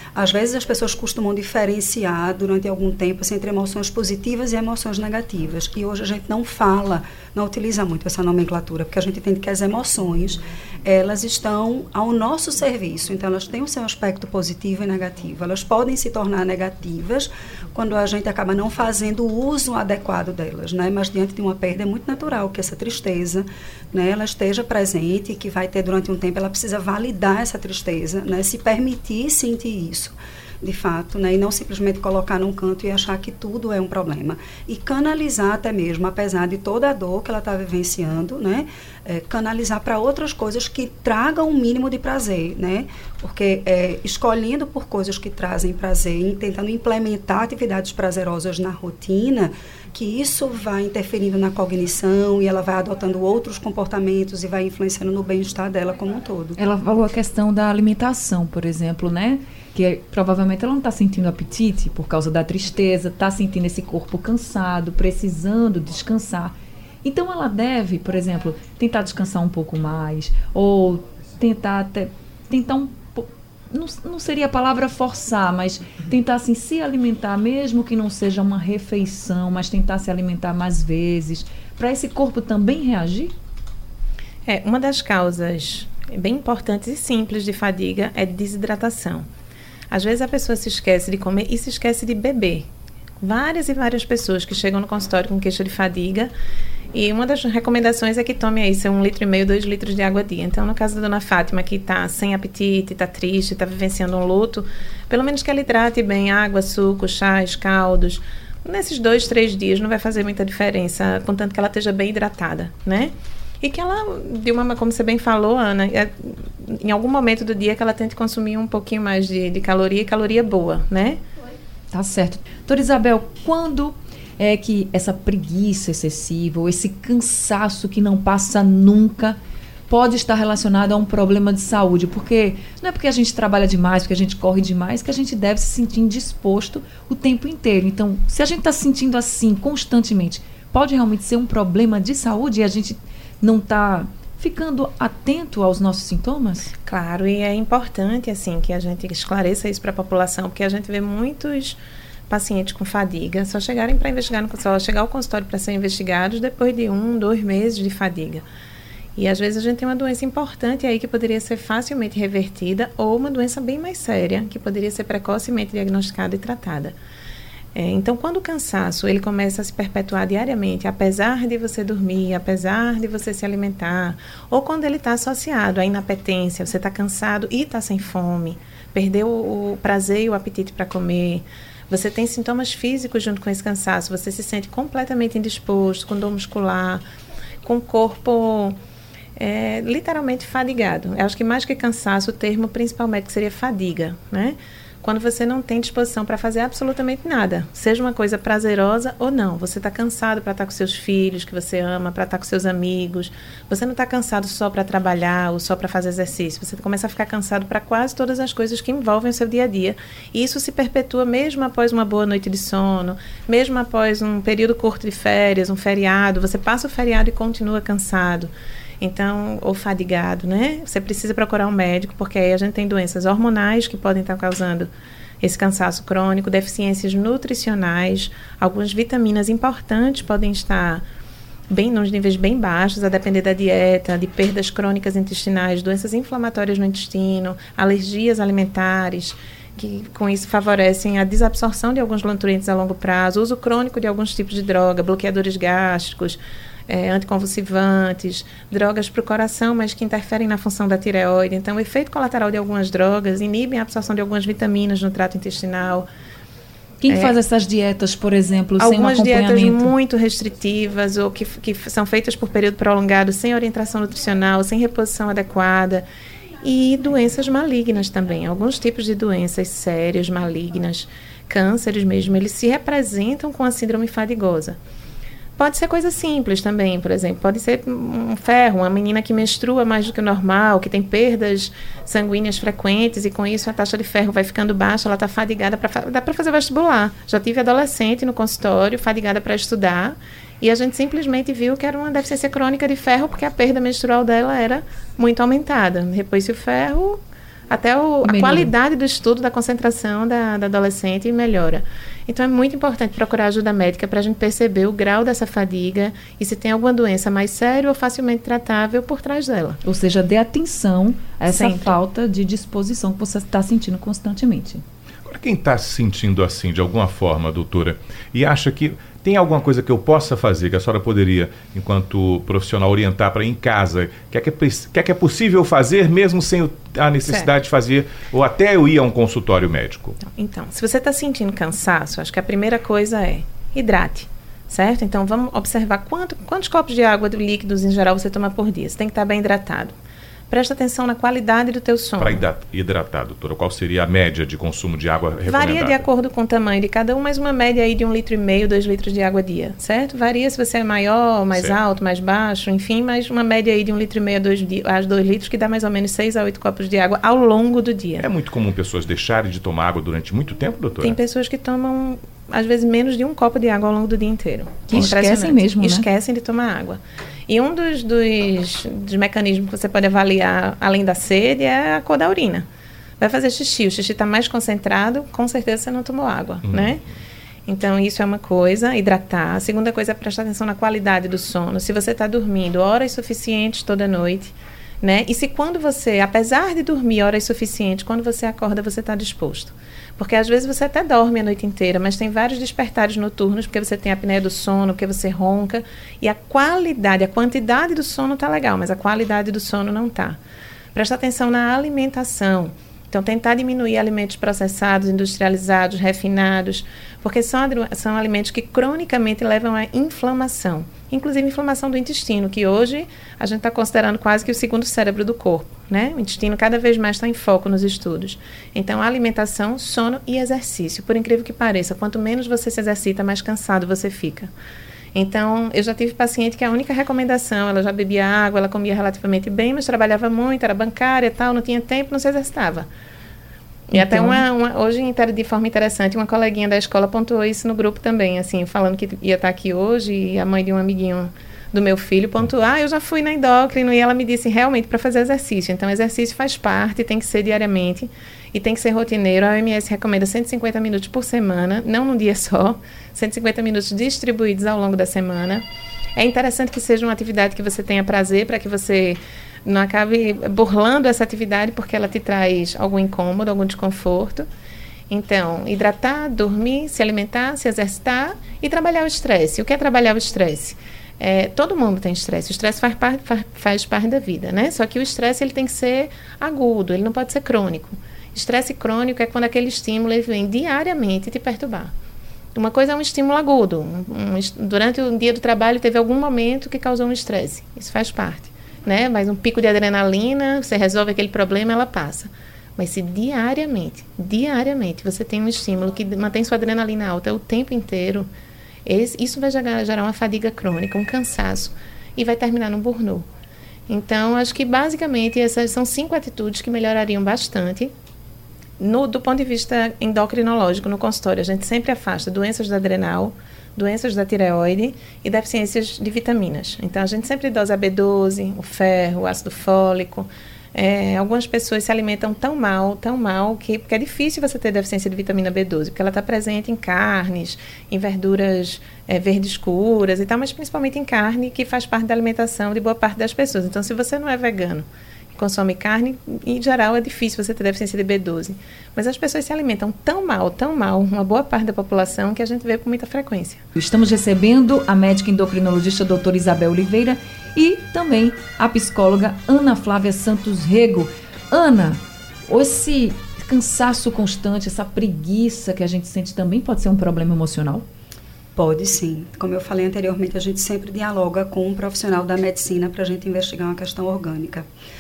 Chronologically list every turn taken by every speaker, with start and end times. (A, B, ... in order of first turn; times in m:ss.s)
0:00.2-0:56.6 A
0:56.6-1:23.3 B
1:24.5-1:29.3 C
1:29.9-1:32.7 C
1:33.2-1:36.3 C
1:36.9-2:01.2 C
2:01.9-2:09.4 B
2:09.9-2:26.7 B
2:26.9-2:31.8 C
2:32.3-2:38.4 C
2:39.2-2:46.9 C
2:47.8-3:07.0 C
3:07.6-3:08.8 C
3:09.4-3:44.9 C
3:45.4-3:51.0 C
3:51.7-4:16.1 C
4:17.0-4:19.9 B
4:17.1-4:17.4 C
4:18.8-4:26.0 C
4:26.6-4:34.8 C
4:35.6-5:09.8 C
4:58.2-4:58.7 B
5:09.8-5:14.8 B
5:11.5-5:12.0 C
5:15.2-5:30.2 D
5:30.3-5:39.9 C
5:40.5-5:42.4 C
5:42.2-5:46.0 D
5:45.5-5:58.3 C
5:58.2-6:01.2 D
6:01.0-6:12.6 C
6:04.9-6:06.1 B
6:13.2-6:17.0 C
6:16.7-6:17.0 D
6:17.7-6:40.4 C
6:40.9-7:04.5 C
7:05.1-7:12.9 C
7:13.9-7:35.6 C
7:13.9-7:14.4 B
7:36.2-7:44.5 C
7:45.1-8:01.9 C
8:02.6-8:18.3 C
8:18.9-8:23.3 C
8:23.9-8:27.9 C
8:28.8-9:03.6 C
9:03.8-9:17.9 B
9:18.6-9:24.7 A